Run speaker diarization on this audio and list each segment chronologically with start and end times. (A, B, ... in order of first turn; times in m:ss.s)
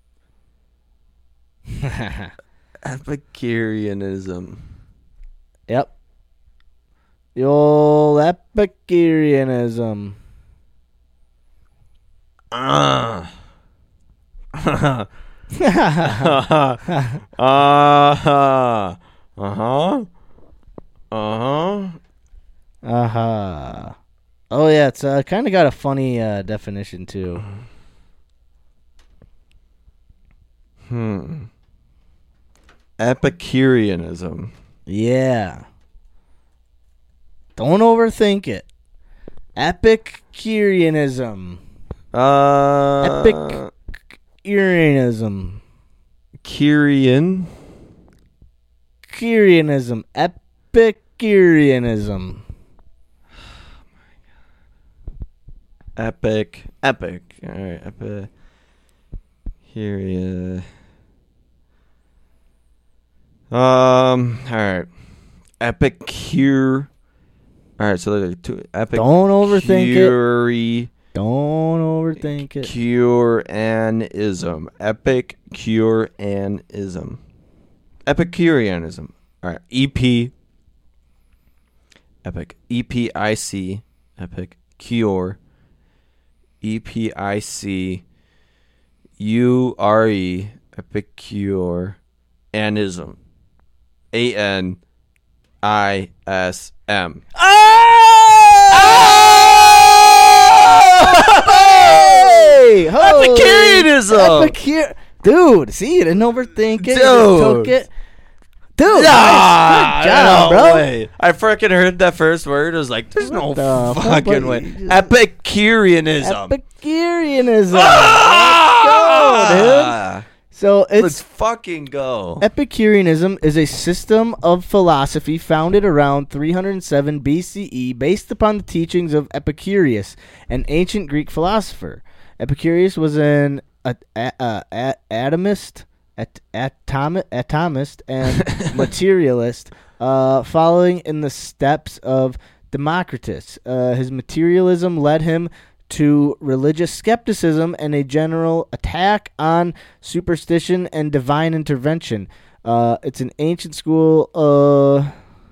0:01.8-0:02.3 A
0:02.8-0:04.6 B
0:07.3-0:10.2 A
0:12.5-0:13.3 B
0:14.6-0:15.1 B
0:15.6-0:16.3 A
0:16.0-0:16.8 B
0:16.8-0:17.2 A
0:17.4-0:20.1 B
0:21.1-0:22.0 B
0:22.8-0:23.9 A
0:24.5-0:27.4 A
0:30.9-0:31.5 B
0:33.0-0:34.5 B
0:34.9-0:35.6 A
0:37.6-0:38.7 A
0:39.6-0:41.6 A
0:42.1-0:43.7 B
0:43.0-0:43.6 A
0:44.4-0:45.6 A
0:46.4-0:47.5 B
0:49.0-0:52.4 A
0:56.0-0:58.3 B
0:59.7-1:00.6 B
1:03.5-1:04.9 B
1:05.6-1:06.9 B
1:07.8-1:10.9 B
1:08.9-1:10.2 A
1:11.1-1:12.7 A
1:12.6-1:17.2 B
1:18.0-1:20.3 B
1:22.2-1:25.4 B
1:26.6-1:28.0 B
1:29.2-1:32.0 B
1:32.5-1:33.2 B
1:34.1-1:34.8 B
1:35.6-1:37.2 B
1:37.3-1:47.9 A
1:38.7-1:39.8 B
1:40.5-1:44.5 B
1:46.8-1:47.7 B
1:48.8-1:50.9 A
1:48.8-1:56.6 B
1:53.2-1:55.1 A
1:56.2-2:00.0 A
1:57.7-2:00.2 B
2:00.5-2:01.2 A
2:01.0-2:02.4 B
2:02.4-2:35.1 A
2:18.4-2:18.7 B